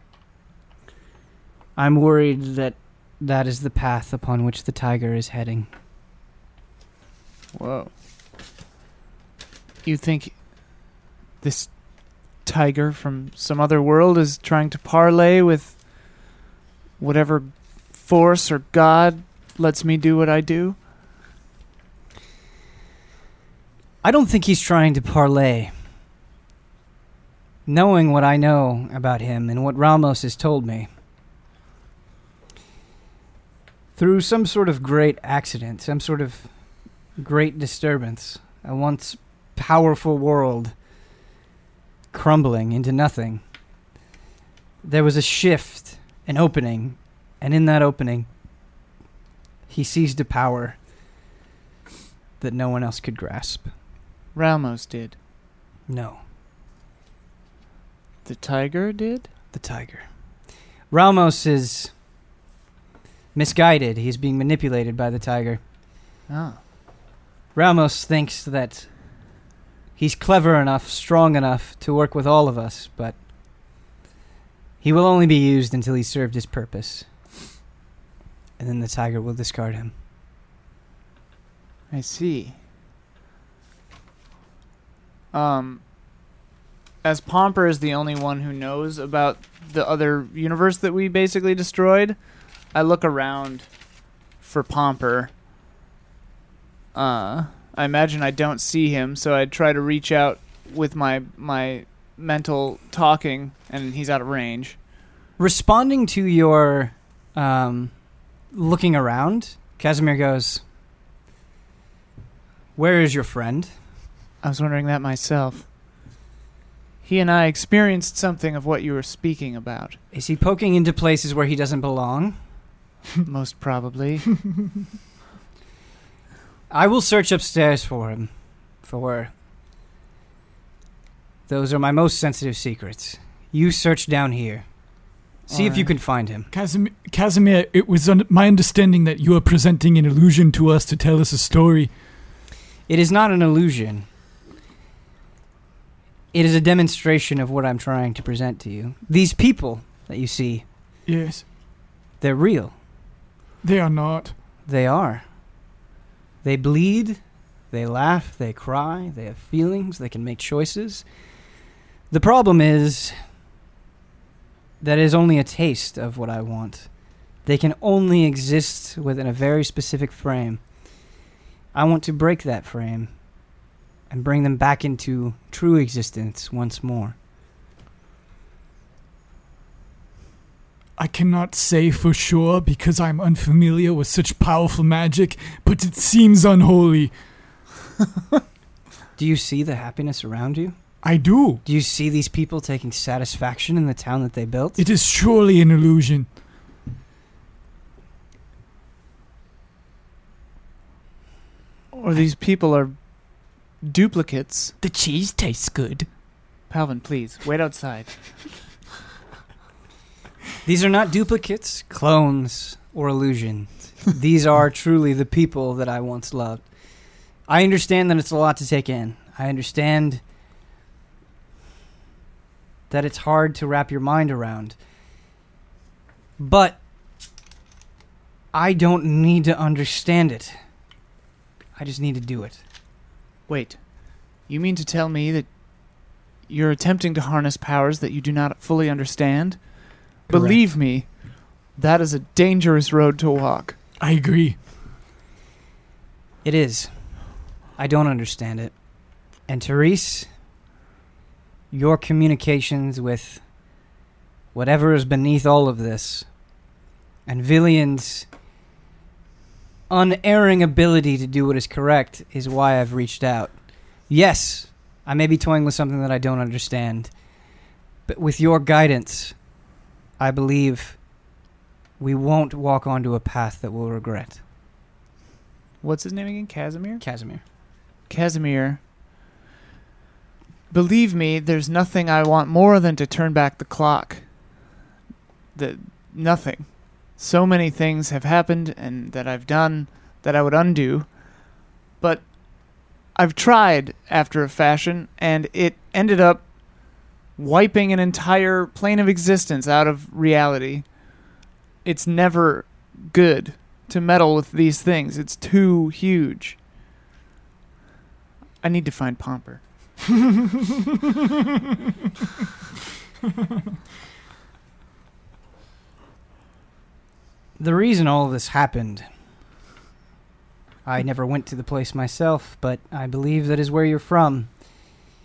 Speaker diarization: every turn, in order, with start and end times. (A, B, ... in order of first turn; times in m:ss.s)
0:01.8-0:05.7 A
0:07.5-0:07.9 B
0:09.8-0:10.4 B
0:11.4-0:11.7 B
0:12.4-0:15.8 B
0:17.0-0:20.8 B
0:24.0-0:25.7 A
0:27.6-0:30.9 A
0:34.0-0:36.5 A
0:37.2-0:40.7 A
0:42.1-0:43.4 A
0:44.8-0:48.3 A
0:49.7-0:50.8 A
0:52.4-0:53.7 A
0:54.3-0:55.1 B
0:55.9-0:56.2 A
0:58.2-0:59.3 B
0:59.5-1:00.0 A
1:00.9-1:01.9 A
1:03.3-1:05.6 A
1:06.3-1:06.6 B
1:07.5-1:08.9 A
1:10.0-1:13.2 A
1:14.8-1:17.0 A
1:18.6-1:19.9 A
1:21.9-1:22.6 B
1:25.3-1:25.8 B
1:27.0-1:32.2 B
1:32.7-1:33.7 B
1:34.4-1:35.3 B
1:36.9-1:44.8 B
1:45.4-1:47.9 A
1:48.5-1:50.6 A
1:52.8-1:53.7 A
1:54.4-1:55.7 B
1:57.0-2:00.0 B
2:00.1-2:02.4 A
2:03.2-2:04.4 B
2:06.7-2:08.3 A
2:08.8-2:09.3 A
2:11.5-2:14.6 A
2:15.5-2:16.5 A
2:15.5-2:15.8 B
2:16.5-2:21.9 C
2:22.9-2:24.0 A
2:26.3-2:30.6 A
2:31.0-2:31.4 C
2:32.2-2:32.7 A
2:33.6-2:34.3 C
2:34.6-2:35.2 A
2:36.4-2:37.2 A
2:37.7-2:41.0 A
2:42.1-2:43.1 A
2:44.8-2:46.9 A
2:47.4-2:50.6 A
2:51.7-2:53.1 A
2:54.1-2:57.1 A
3:01.0-3:07.1 C
3:09.2-3:10.7 A
3:11.0-3:11.6 C
3:11.6-3:14.8 A
3:14.8-3:16.3 C
3:21.9-3:22.9 B
3:23.8-3:24.7 B
3:24.8-3:26.1 C
3:26.7-3:28.1 B
3:30.6-3:36.6 A
3:37.5-3:40.2 A
3:42.9-3:44.7 A
3:46.4-3:46.8 A
3:48.5-3:50.5 A
3:51.8-3:52.6 A
3:53.5-3:55.5 B
3:56.5-4:03.8 B
4:04.0-4:04.6 C
4:06.4-4:06.9 A
4:07.8-4:08.7 A
4:09.5-4:10.3 A
4:11.7-4:13.4 A
4:14.5-4:16.3 A
4:17.2-4:18.3 A
4:19.9-4:23.5 A
4:24.1-4:27.1 A
4:28.1-4:29.3 A
4:30.2-4:31.0 A
4:32.0-4:34.4 A
4:35.8-4:37.0 B
4:37.0-4:37.4 A
4:38.1-4:38.8 B
4:40.7-4:44.2 B
4:45.5-4:51.2 B
4:52.0-4:52.3 B
4:53.1-4:56.5 B
4:57.4-5:00.9 B
5:01.8-5:06.6 B
5:08.6-5:09.6 B
5:17.6-5:19.0 A
5:20.8-5:24.5 A